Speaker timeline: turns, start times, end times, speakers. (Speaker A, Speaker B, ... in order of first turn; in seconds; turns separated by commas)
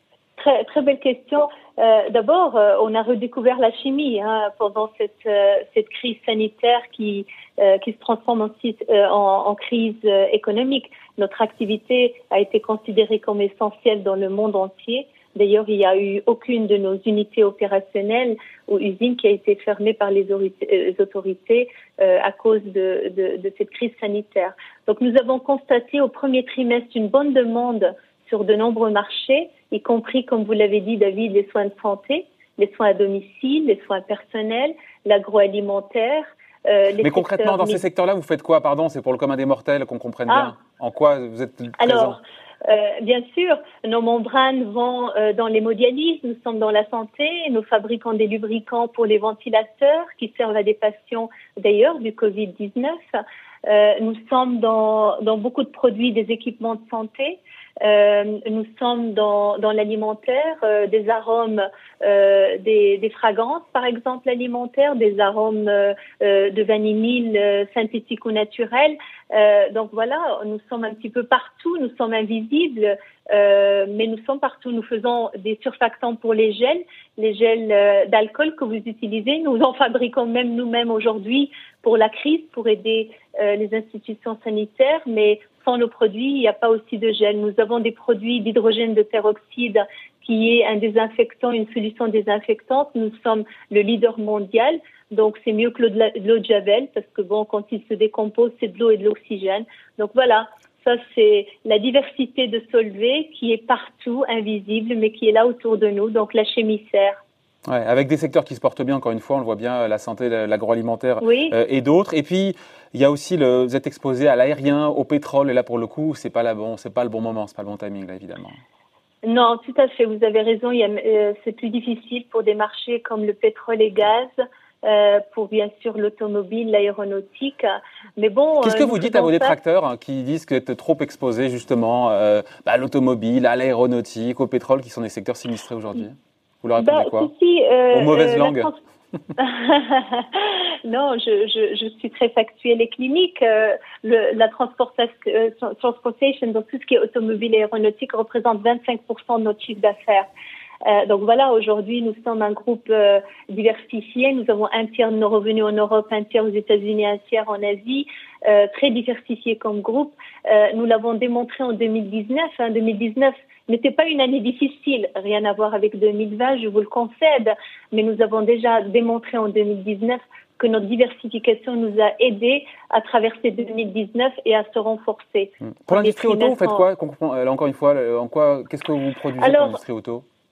Speaker A: 0.4-37.8, Speaker B: 37.0-42.2, Speaker A: 40.3-40.6, Speaker A: 41.8-107.2, Speaker B: 107.7-118.6, Speaker A: 111.2-111.5, Speaker A: 119.3-124.3, Speaker A: 124.8-129.6, Speaker B: 128.6-137.3, Speaker A: 136.8-138.8, Speaker B: 137.9-138.7, Speaker A: 139.4-150.3, Speaker A: 150.8-176.9, Speaker B: 175.7-180.2, Speaker A: 179.4-179.8